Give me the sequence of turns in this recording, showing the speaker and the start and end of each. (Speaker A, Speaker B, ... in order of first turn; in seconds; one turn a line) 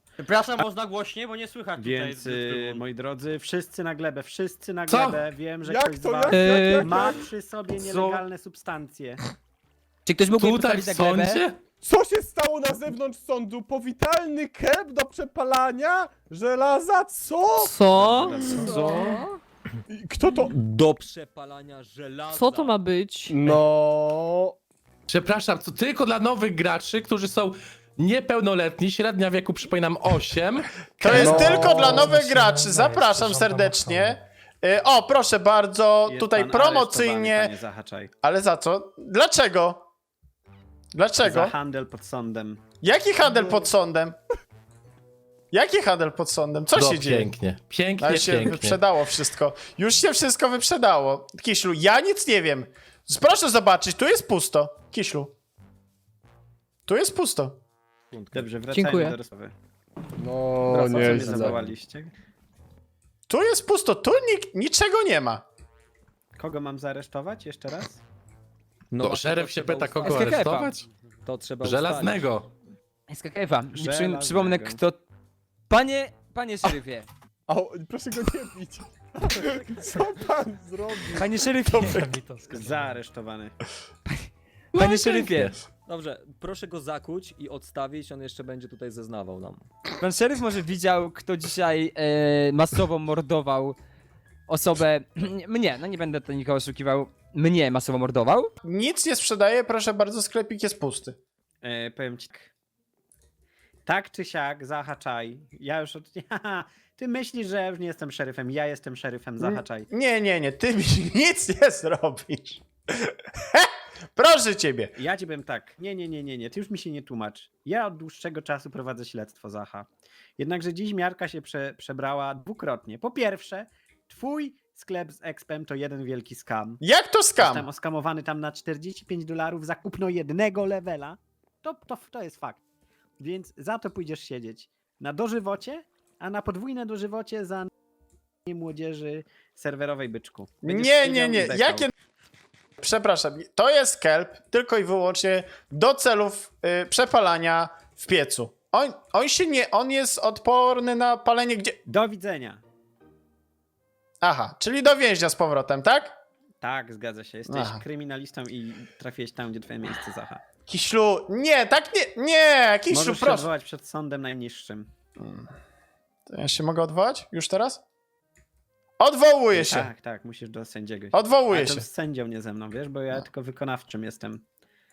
Speaker A: 0.2-2.8
Speaker B: 1.8-9.2
Speaker C: 4.9-5.2
Speaker D: 5.6-7.3
Speaker E: 6.3-6.8
Speaker A: 6.8-7.1
Speaker A: 7.8-8.2
Speaker F: 10.1-11.4
Speaker C: 10.3-11.6
Speaker D: 11.8-17.9
Speaker E: 17.6-19.2
Speaker B: 17.8-18.9
Speaker D: 18.4-19.0
Speaker C: 18.9-19.2
Speaker D: 19.9-20.5
Speaker G: 20.5-22.8
Speaker E: 22.3-23.4
Speaker D: 23.3-24.5
Speaker C: 25.1-34.1
Speaker H: 31.0-37.5
Speaker D: 31.1-32.2
Speaker B: 36.0-38.1
Speaker H: 38.2-39.9
Speaker H: 40.9-41.5
Speaker B: 41.2-42.6
Speaker H: 42.8-44.1
Speaker H: 45.5-47.3
Speaker C: 46.8-48.8
Speaker H: 48.0-55.3
Speaker H: 56.9-57.6
Speaker G: 58.1-58.5
Speaker B: 58.3-59.5
Speaker E: 58.7-59.1
Speaker D: 60.2-61.6
Speaker B: 60.7-62.1
Speaker G: 60.7-61.7
Speaker H: 63.3-65.4
Speaker B: 66.3-68.0
Speaker G: 68.9-70.3
Speaker C: 69.0-70.8
Speaker F: 70.0-70.8
Speaker G: 71.2-72.3
Speaker C: 71.6-72.5
Speaker F: 73.1-75.0
Speaker B: 73.7-74.8
Speaker F: 75.7-77.1
Speaker D: 77.5-82.1
Speaker F: 81.1-82.8
Speaker B: 82.5-83.5
Speaker F: 84.1-85.6
Speaker E: 84.8-85.5
Speaker G: 85.8-89.6
Speaker F: 90.0-93.8
Speaker F: 94.5-98.5
Speaker H: 98.6-101.2
Speaker B: 101.6-102.5
Speaker B: 103.8-109.9
Speaker H: 109.4-114.9
Speaker B: 115.0-126.8
Speaker H: 126.8-127.7
Speaker B: 127.4-132.6
Speaker B: 133.2-137.7
Speaker B: 138.4-141.9
Speaker H: 140.6-141.9
Speaker H: 142.8-151.8
Speaker B: 151.9-152.6
Speaker H: 154.2-156.2
Speaker B: 156.6-160.4
Speaker H: 157.5-157.8
Speaker H: 160.7-163.5
Speaker B: 162.9-164.9
Speaker H: 165.2-165.5
Speaker H: 166.3-167.8
Speaker H: 169.0-169.9
Speaker B: 169.5-174.4
Speaker H: 171.1-171.8